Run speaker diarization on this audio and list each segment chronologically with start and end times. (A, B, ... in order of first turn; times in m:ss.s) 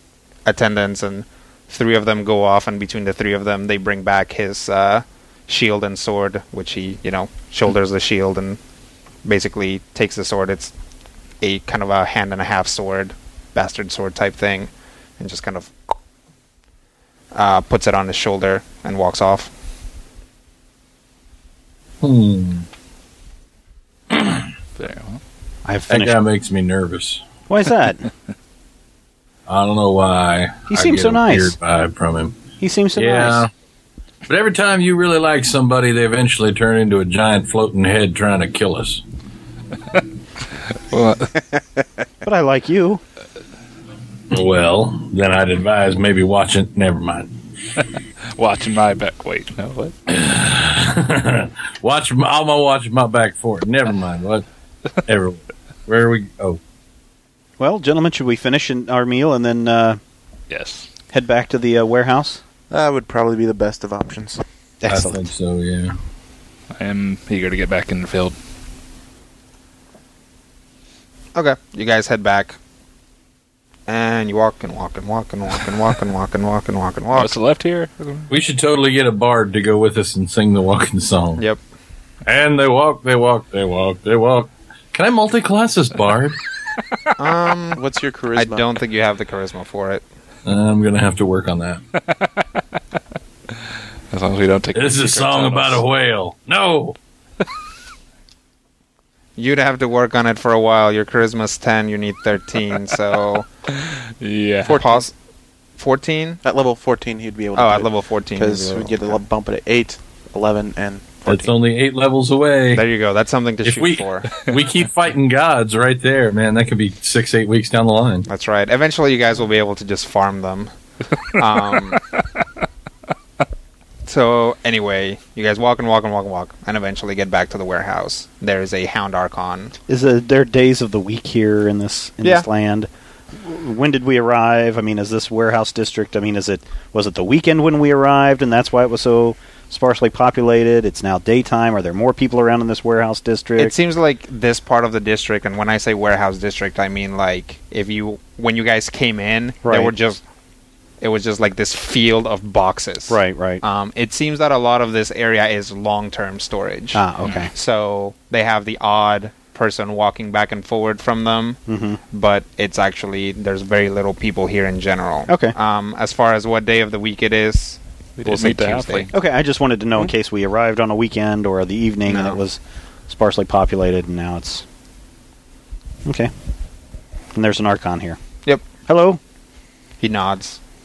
0:00.4-0:08.6 A
0:09.2-0:10.7 A
0:11.4-0:15.7 A
0:17.3-0:19.5 A
0:22.0-0:22.7 B
0:24.1-0:24.5 B
0:24.8-0:25.2 C
0:25.6-0:26.2 D
0:25.9-0:27.2 B
0:27.5-0:28.1 D
0:29.5-0:32.4 B
0:30.7-0:31.5 D
0:32.6-0:33.4 D
0:32.9-0:33.5 B
0:34.3-0:39.0 B
0:40.9-0:41.4 C
0:42.2-0:43.0 D
0:44.3-0:47.3 B
0:48.3-0:49.9 C
0:50.1-0:54.4 B
0:55.0-0:56.6 B
0:57.6-1:00.0 D
1:00.5-1:00.9 C
1:01.1-1:02.4 D
1:02.7-1:04.4 E
1:04.8-1:05.2 D
1:04.9-1:05.9 B
1:06.7-1:08.3 C
1:11.3-1:12.6 A
1:13.9-1:17.3 A
1:17.1-1:18.3 C
1:18.3-1:21.4 B
1:22.2-1:26.4 B
1:27.2-1:27.8 A
1:27.7-1:28.6 E
1:28.3-1:30.0 A
1:30.4-1:31.8 B
1:32.1-1:32.4 C
1:34.1-1:35.8 C
1:34.7-1:37.0 B
1:39.4-1:43.5 A
1:43.8-1:44.8 C
1:44.6-1:45.0 E
1:44.7-1:45.1 A
1:45.8-1:46.4 A
1:46.4-1:51.5 E
1:47.5-1:49.2 A
1:51.3-1:52.8 B
1:52.7-1:54.3 A
1:53.6-1:58.3 B
1:58.3-2:00.7 A
2:01.3-2:02.0 A
2:04.0-2:09.7 A
2:09.9-2:23.7 D
2:23.6-2:30.2 A
2:29.6-2:29.9 D
2:31.0-2:49.1 A
2:33.1-2:33.6 D
2:36.9-2:37.5 D
2:41.7-2:42.0 D
2:45.3-2:45.5 D
2:48.2-2:49.1 C
2:49.1-2:54.6 D
2:52.1-2:52.4 A
2:56.0-2:56.3 D
2:57.3-2:58.2 D
2:58.8-2:59.2 D
3:00.0-3:00.6 A